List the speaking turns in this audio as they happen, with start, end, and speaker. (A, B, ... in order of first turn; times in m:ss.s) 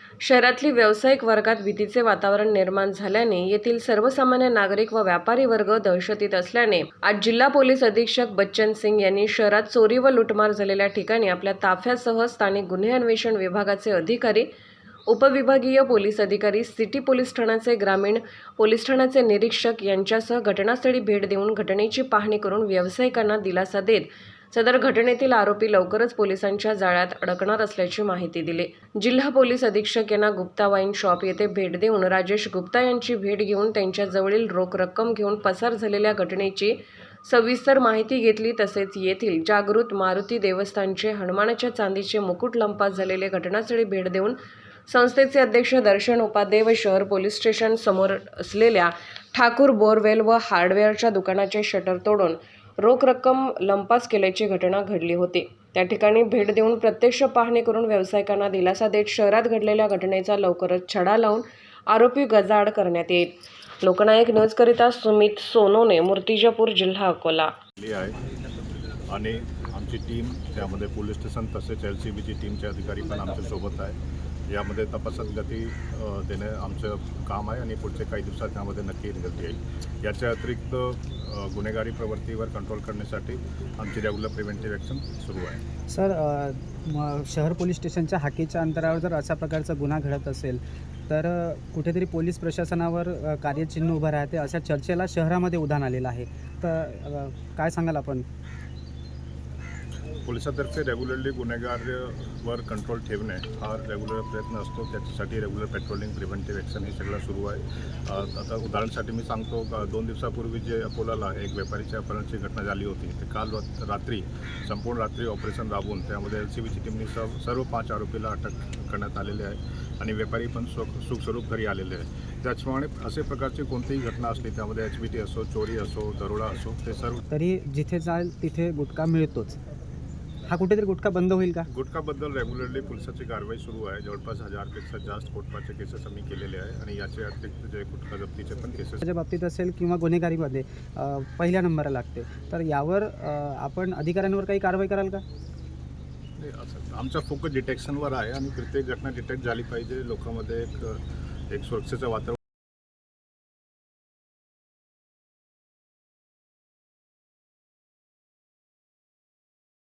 0:00.2-0:14.5 A
0:15.1-1:07.5 A
1:07.8-1:08.2 B
1:09.1-1:14.0 B
1:14.5-1:25.6 B
1:25.9-1:38.2 C
1:40.2-2:07.2 B
2:07.3-2:09.6 C
2:10.4-2:11.6 C
2:11.7-2:19.0 B
2:19.0-2:25.2 C
2:26.4-2:32.4 B